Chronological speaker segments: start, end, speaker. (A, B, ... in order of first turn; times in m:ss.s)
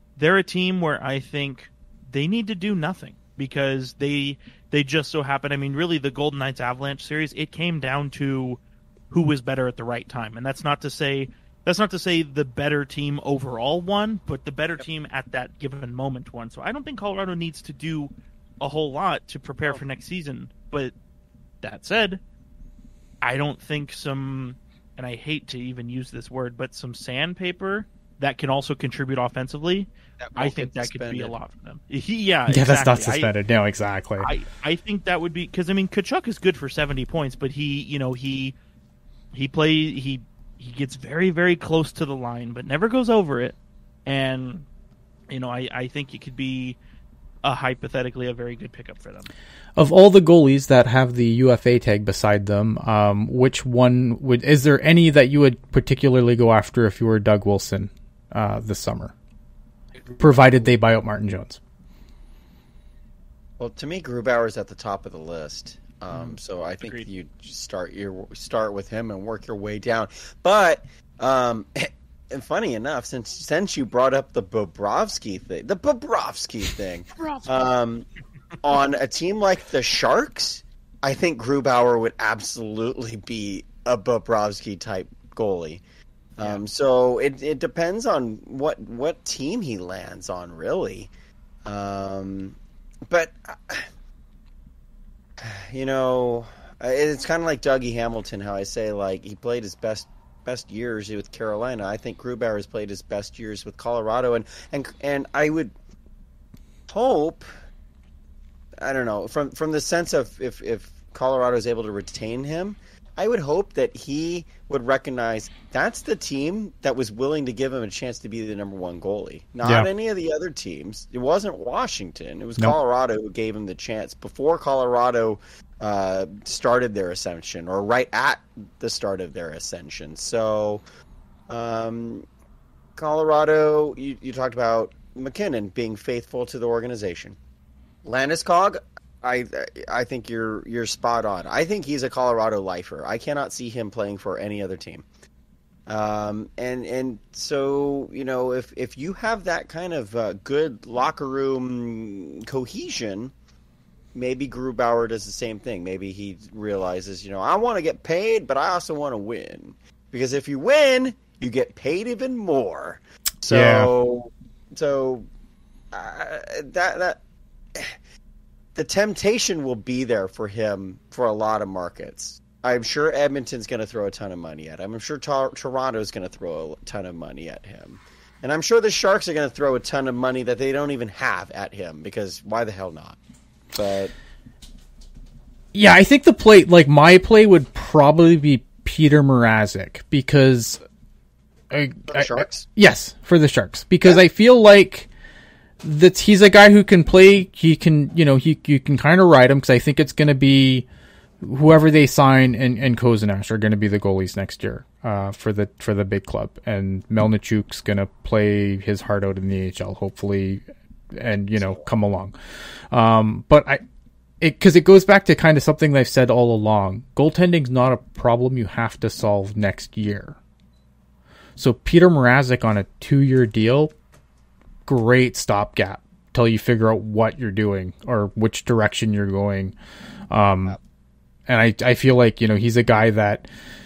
0:00.2-0:08.6 A
0:09.1-0:20.9 A
0:21.6-0:22.2 A
0:23.2-0:33.3 A
0:30.2-0:31.3 B
0:32.5-0:34.3 C
0:34.2-0:38.5 A
0:39.3-0:44.6 A
0:45.3-0:46.8 A
0:47.4-0:49.3 A
0:49.8-0:59.1 C
1:00.0-1:00.7 B
1:00.2-1:01.6 C
1:03.6-1:18.1 B
1:06.1-1:07.0 A
1:17.2-1:17.6 A
1:18.6-1:25.8 B
1:26.4-1:31.1 B
1:31.6-1:33.9 B
1:35.4-1:45.7 B
1:46.9-1:47.5 B
1:48.8-2:10.8 B
2:11.5-2:12.2 B
2:13.0-2:17.4 B
2:18.0-2:25.0 B
2:25.9-2:33.3 B
2:34.1-2:45.3 B
2:43.5-2:43.9 C
2:45.9-2:47.2 B
2:48.7-3:03.2 B
3:03.7-3:04.1 B
3:05.7-3:10.8 C
3:11.7-3:15.1 C
3:12.1-3:12.7 B
3:15.8-3:20.8 C
3:21.4-3:30.6 C
3:31.1-3:32.4 C
3:32.9-3:33.8 C
3:34.4-3:40.4 C
3:41.6-3:43.9 C
3:44.8-3:49.7 C
3:50.3-3:50.8 C
3:51.5-3:53.5 C